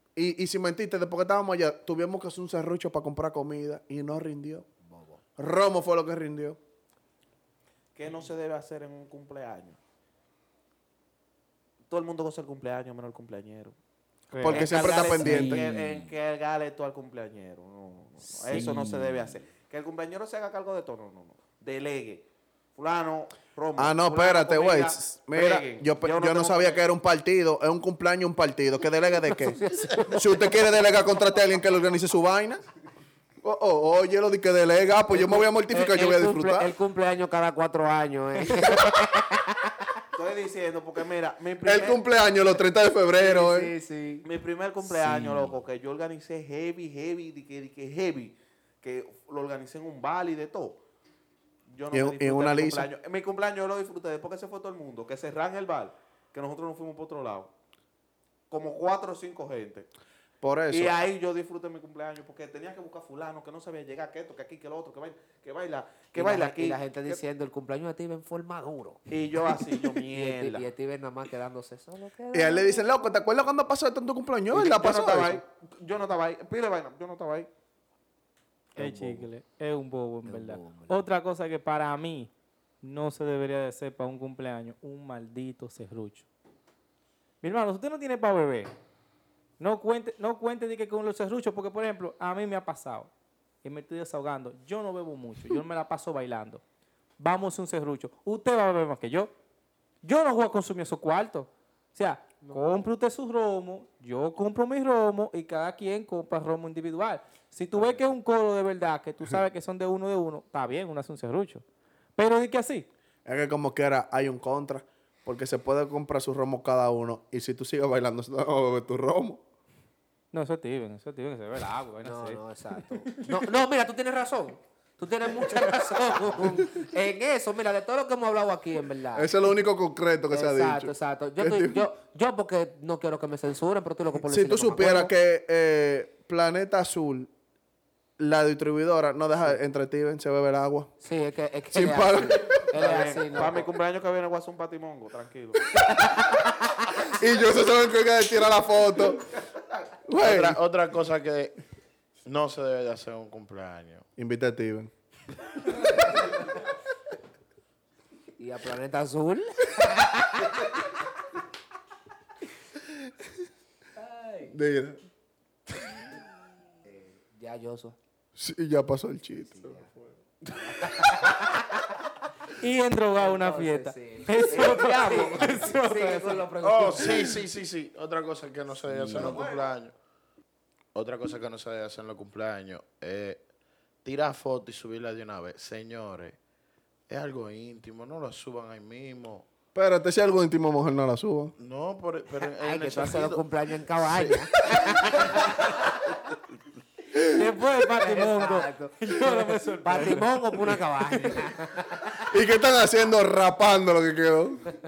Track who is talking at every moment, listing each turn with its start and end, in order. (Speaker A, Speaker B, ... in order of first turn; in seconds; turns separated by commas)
Speaker A: 0.2-4.7, Speaker B: 4.8-5.2, Speaker A: 5.4-6.6, Speaker C: 8.0-9.8, Speaker C: 11.9-13.8, Speaker D: 14.3-14.7, Speaker A: 14.4-15.7, Speaker C: 14.4-26.8, Speaker B: 14.9-16.1, Speaker B: 18.2-19.1, Speaker A: 23.8-32.6, Speaker B: 29.3-30.5, Speaker A: 33.4-36.7, Speaker B: 35.1-40.0, Speaker C: 40.1-42.0, Speaker A: 41.6-43.7, Speaker B: 43.1-44.3, Speaker C: 44.2-50.8, Speaker E: 44.9-45.5, Speaker C: 51.7-57.5, Speaker A: 51.9-52.9, Speaker C: 58.5-59.9, Speaker A: 60.4-61.0, Speaker C: 60.7-67.2, Speaker B: 66.1-69.0, Speaker C: 69.1-70.7, Speaker B: 70.1-72.8, Speaker A: 72.3-75.4, Speaker C: 74.5-77.5, Speaker B: 78.8-79.3, Speaker D: 78.8-82.3, Speaker B: 80.3-81.0, Speaker D: 82.8-86.3, Speaker D: 87.4-88.7, Speaker D: 89.6-93.1, Speaker D: 93.6-96.6, Speaker D: 97.2-99.3, Speaker D: 100.0-111.6, Speaker B: 102.4-102.7, Speaker D: 112.2-112.9, Speaker A: 113.3-119.4, Speaker D: 120.3-123.3, Speaker B: 122.0-129.3, Speaker A: 125.9-126.9, Speaker A: 129.1-131.9, Speaker B: 130.3-135.1, Speaker A: 134.2-137.3, Speaker A: 138.2-140.9, Speaker B: 141.0-143.7, Speaker A: 141.7-142.7, Speaker C: 142.7-146.0, Speaker B: 145.8-147.1, Speaker A: 147.1-149.3, Speaker C: 149.0-149.9, Speaker A: 150.1-150.6, Speaker E: 150.2-151.6, Speaker E: 152.3-154.1, Speaker A: 154.2-154.9, Speaker B: 158.4-160.9, Speaker B: 163.9-164.6, Speaker A: 164.5-165.0, Speaker B: 166.8-168.0, Speaker A: 168.4-171.1, Speaker B: 169.5-169.9, Speaker B: 170.6-172.3, Speaker D: 172.5-176.5, Speaker B: 173.2-177.4, Speaker C: 174.6-175.5, Speaker E: 176.6-179.9, Speaker B: 178.9-179.5, Speaker A: 179.0-179.8, Speaker E: 180.9-183.4, Speaker E: 184.0-186.4, Speaker E: 187.1-189.4, Speaker A: 189.8-191.6, Speaker E: 191.6-193.4, Speaker B: 192.4-196.2, Speaker E: 194.2-195.4, Speaker A: 197.1-197.4, Speaker D: 197.2-201.5, Speaker B: 197.8-202.3, Speaker A: 202.3-204.7